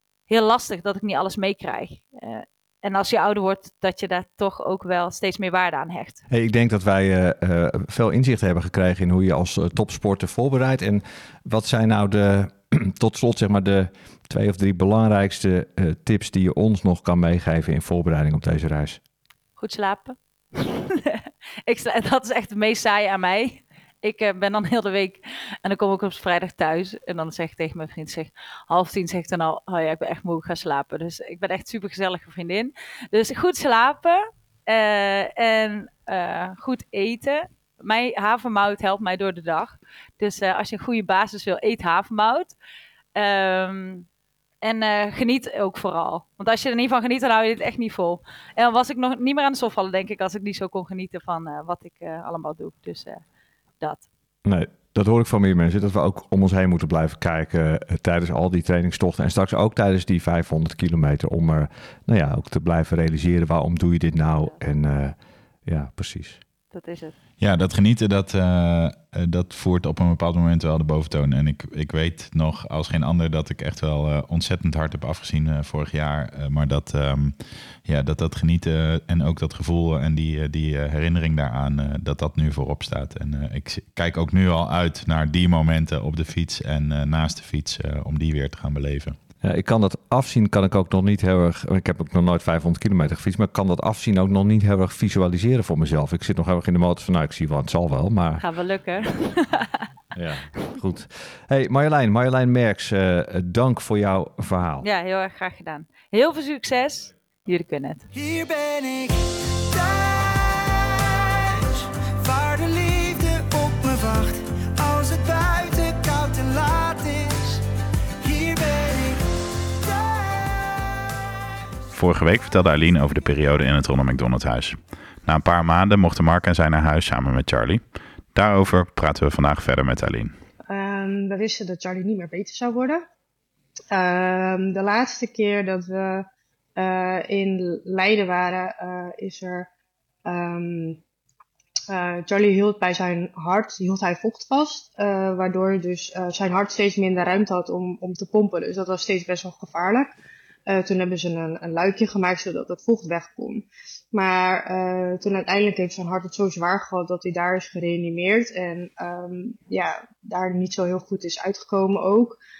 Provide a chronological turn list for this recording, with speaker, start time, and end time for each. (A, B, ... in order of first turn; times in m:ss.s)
0:00.3-0:06.2 A
0:06.3-0:19.0 B
0:19.6-0:42.5 A
0:43.2-0:44.0 A
0:44.6-0:53.2 A
0:53.8-0:54.0 A
0:54.4-1:06.4 B
1:06.7-1:07.1 A
1:07.4-1:29.2 C
1:29.4-1:38.4 B
1:38.4-1:39.9 A
1:40.1-1:44.8 B
1:44.8-1:48.0 A
1:48.1-1:57.6 D
1:58.2-1:59.2 D
1:59.7-2:01.4 D
2:01.9-2:07.8 C
2:08.3-2:10.3 C
2:10.7-2:13.0 E
2:13.9-2:19.7 E
2:20.2-2:21.0 E
2:21.9-2:30.1 E
2:30.7-2:42.4 E